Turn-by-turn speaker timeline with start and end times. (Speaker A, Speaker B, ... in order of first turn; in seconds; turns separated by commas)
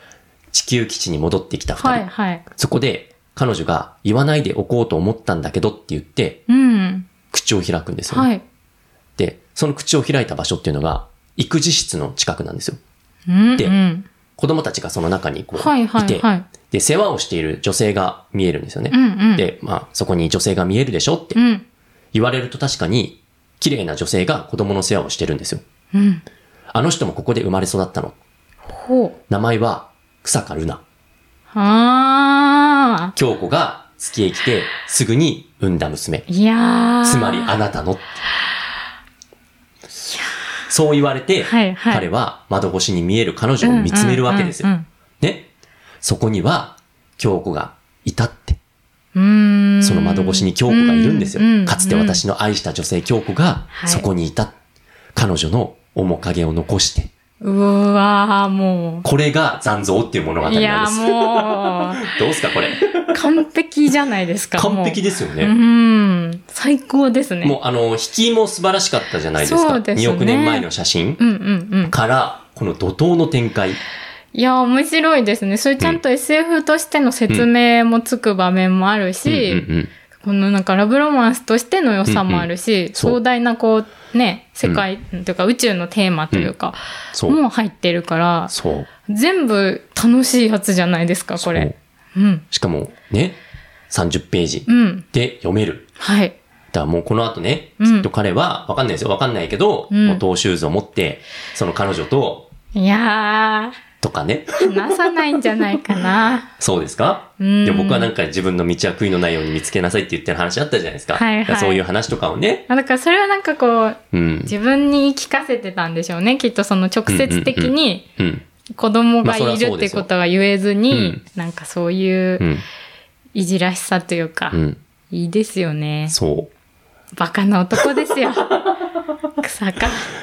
Speaker A: 0.5-6.4, Speaker B: 1.8-2.4, Speaker B: 6.5-7.1, Speaker A: 7.3-8.3, Speaker B: 8.1-8.4, Speaker A: 9.2-12.8, Speaker B: 13.3-14.1, Speaker A: 14.4-21.4, Speaker B: 15.6-16.5, Speaker B: 18.9-19.4, Speaker B: 21.4-21.6, Speaker A: 22.1-25.6, Speaker B: 25.9-26.2, Speaker A: 26.7-28.1, Speaker B: 28.7-29.1, Speaker A: 29.3-30.8, Speaker B: 31.5-33.1, Speaker A: 33.1-36.2, Speaker B: 36.3-37.6, Speaker A: 37.0-38.0, Speaker B: 40.0-40.4, Speaker A: 40.7-45.5, Speaker B: 41.4-42.0, Speaker B: 43.6-44.9, Speaker A: 46.0-48.6, Speaker B: 49.1-52.2, Speaker A: 49.8-54.5, Speaker B: 53.7-54.1, Speaker A: 55.1-57.1, Speaker B: 57.4-59.0, Speaker A: 59.0-63.4, Speaker B: 60.4-62.1, Speaker B: 63.1-67.6, Speaker A: 64.5-65.5, Speaker A: 67.4-71.2, Speaker B: 69.4-70.7, Speaker B: 71.2-71.9, Speaker A: 71.9-73.8, Speaker B: 74.3-79.6, Speaker A: 79.2-79.9, Speaker B: 80.2-88.5, Speaker A: 82.0-83.2, Speaker A: 87.1-87.4, Speaker A: 88.5-88.9, Speaker B: 89.1-92.4, Speaker A: 91.4-91.7, Speaker A: 92.5-93.4, Speaker A: 93.9-95.9, Speaker B: 94.7-95.0, Speaker B: 96.0-96.3, Speaker A: 96.7-102.5, Speaker B: 97.8-98.1, Speaker B: 99.9-100.2, Speaker B: 102.7-103.8, Speaker A: 104.0-105.8, Speaker B: 104.6-106.5, Speaker A: 106.6-112.7, Speaker B: 107.4-108.1, Speaker B: 111.1-111.8, Speaker B: 112.7-118.0, Speaker A: 114.1-114.5, Speaker A: 117.1-118.4, Speaker B: 118.8-122.5, Speaker A: 119.2-120.1, Speaker A: 120.9-121.2, Speaker A: 122.4-122.6, Speaker B: 123.3-124.6, Speaker A: 124.5-124.8, Speaker B: 125.1-126.2, Speaker A: 126.1-126.5, Speaker B: 127.2-128.7, Speaker B: 129.4-130.1